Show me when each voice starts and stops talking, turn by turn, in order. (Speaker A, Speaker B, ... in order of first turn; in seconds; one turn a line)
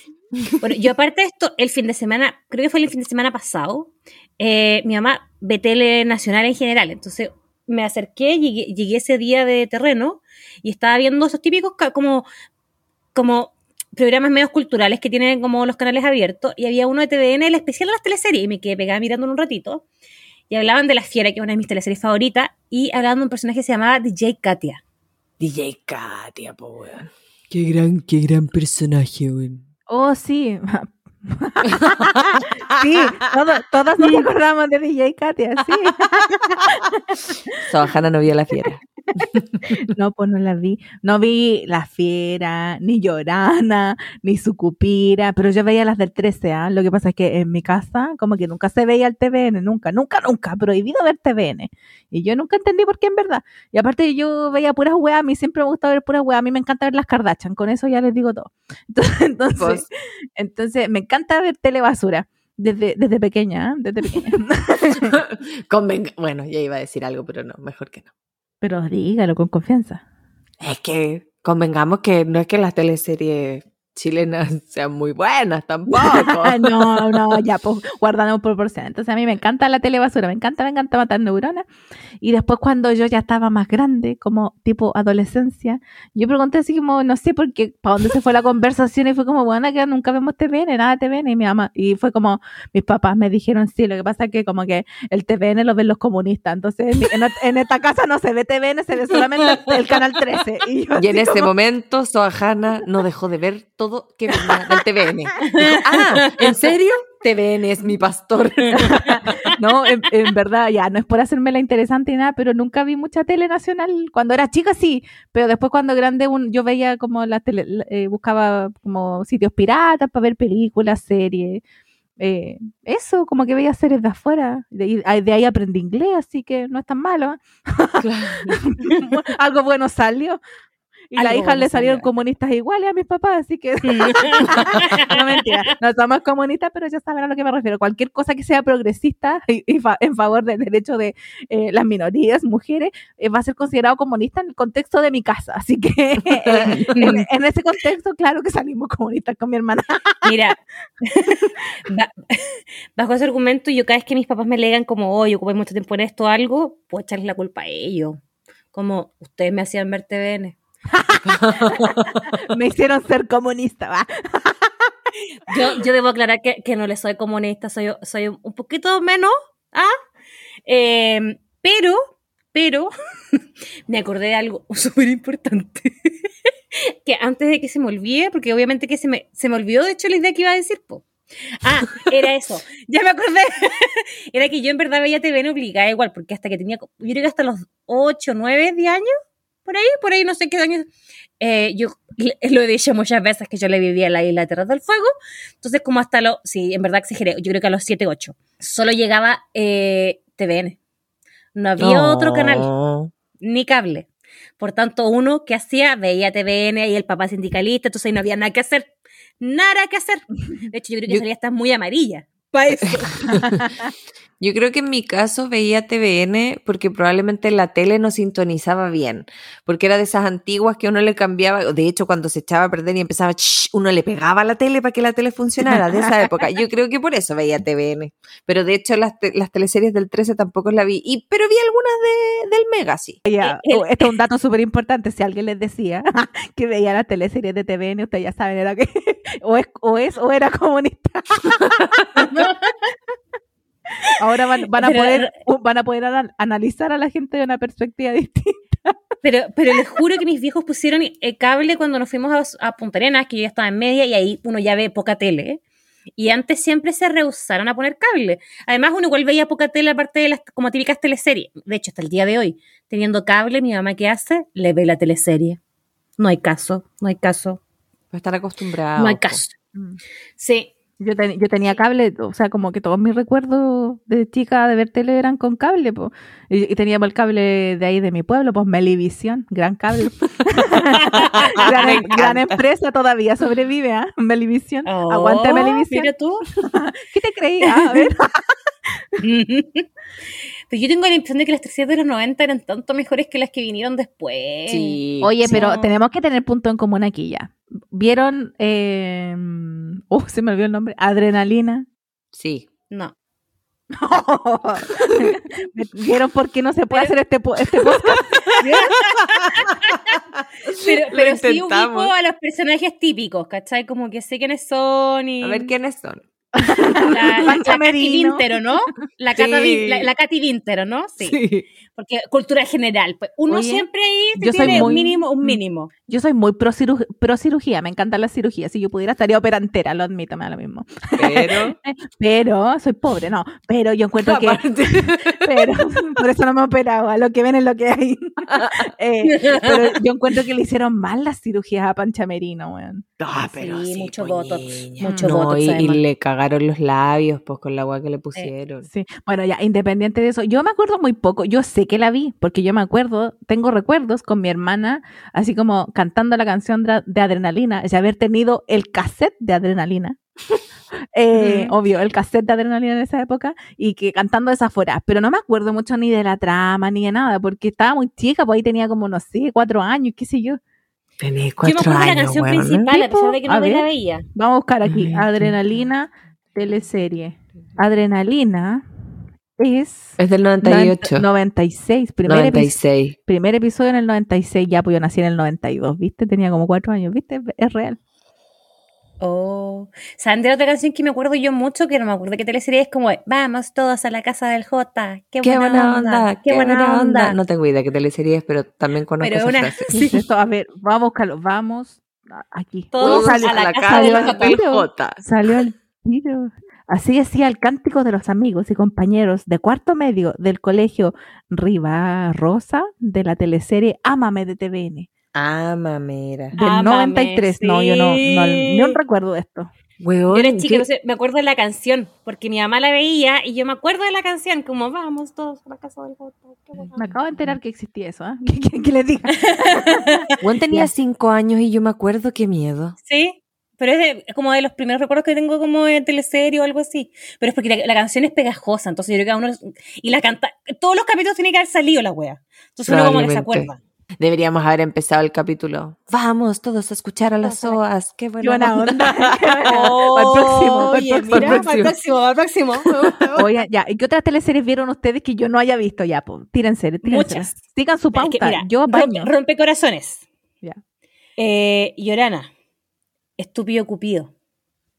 Speaker A: 0.6-12.3
Speaker A: 13.1-19.8
Speaker A: 20.5-24.8
Speaker B: 25.4-29.6
Speaker C: 29.9-37.5
Speaker B: 31.7-33.0
Speaker B: 37.6-38.8
Speaker B: 39.3-39.8
Speaker C: 39.7-65.2
Speaker B: 59.6-59.8
Speaker B: 64.9-68.1
Speaker C: 68.6-70.0
Speaker B: 70.6-77.4
Speaker C: 75.9-81.6
Speaker C: 82.2-101.5
Speaker B: 101.0-109.5
Speaker A: 105.4-106.5
Speaker C: 108.8-121.6
Speaker A: 109.0-109.5
Speaker C: 122.2-130.4
Speaker B: 128.0-128.6
Speaker C: 131.1-150.3
Speaker A: 131.2-132.1
Speaker A: 133.8-135.4
Speaker B: 146.2-147.1
Speaker A: 146.9-147.2
Speaker A: 150.2-158.2
Speaker A: 158.7-160.6
Speaker C: 160.9-164.9
Speaker B: 161.3-162.2
Speaker A: 165.5-169.9
Speaker A: 170.7-172.0
Speaker A: 172.5-176.1
Speaker A: 176.8-189.1
Speaker A: 189.6-195.1
Speaker A: 195.6-200.8
Speaker A: 201.5-202.7
Speaker B: 201.8-203.1
Speaker A: 203.4-204.1
Speaker A: 204.6-213.4
Speaker B: 212.8-213.7
Speaker B: 214.4-233.2
Speaker C: 233.2-242.6
Speaker A: 233.4-234.1
Speaker A: 242.2-242.8
Speaker C: 244.1-248.9
Speaker A: 244.8-245.3
Speaker A: 249.2-255.6
Speaker A: 256.2-265.6
Speaker A: 266.2-267.6
Speaker B: 268.1-269.4
Speaker A: 268.9-269.5
Speaker C: 269.7-270.0
Speaker A: 270.4-270.7
Speaker C: 271.0-288.4
Speaker B: 280.6-282.6
Speaker A: 281.0-282.1
Speaker A: 284.8-286.4
Speaker A: 287.6-288.1
Speaker A: 289.2-289.9
Speaker A: 290.7-295.9
Speaker B: 294.7-295.3
Speaker C: 295.2-301.9
Speaker B: 302.3-302.7
Speaker C: 303.9-308.5
Speaker B: 307.8-312.1
Speaker A: 308.6-310.2
Speaker A: 310.7-315.7
Speaker B: 315.4-317.5
Speaker C: 316.6-318.4
Speaker A: 317.0-321.4
Speaker B: 319.3-320.1
Speaker B: 321.2-321.7
Speaker A: 321.9-325.9
Speaker C: 323.5-343.0
Speaker B: 324.6-324.9
Speaker B: 331.2-331.8
Speaker B: 334.2-335.7
Speaker B: 338.5-338.9
Speaker A: 339.2-339.9
Speaker B: 343.2-348.9
Speaker A: 343.4-346.0
Speaker C: 348.9-360.2
Speaker C: 361.1-370.6
Speaker B: 371.2-372.9
Speaker A: 371.6-374.2
Speaker C: 372.9-378.9
Speaker B: 374.8-375.6
Speaker C: 379.6-388.0
Speaker B: 380.2-381.2
Speaker B: 382.2-383.1
Speaker A: 389.2-397.4
Speaker B: 395.4-399.9
Speaker A: 399.2-400.2
Speaker C: 399.9-415.1
Speaker A: 402.9-404.6
Speaker B: 403.0-405.2
Speaker B: 415.3-416.6
Speaker A: 416.6-419.0
Speaker C: 416.6-419.7
Speaker B: 420.0-420.8
Speaker A: 420.3-427.1
Speaker C: 426.9-430.9
Speaker A: 429.4-430.2
Speaker B: 430.4-432.9
Speaker A: 433.0-443.8
Speaker B: 442.9-449.8
Speaker A: 447.4-447.8
Speaker C: 448.4-451.6
Speaker A: 449.7-453.4
Speaker B: 450.8-451.9
Speaker B: 452.8-453.4
Speaker C: 453.3-459.3
Speaker A: 457.0-457.6
Speaker A: 458.1-460.2
Speaker A: 461.4-462.5
Speaker A: 463.4-464.3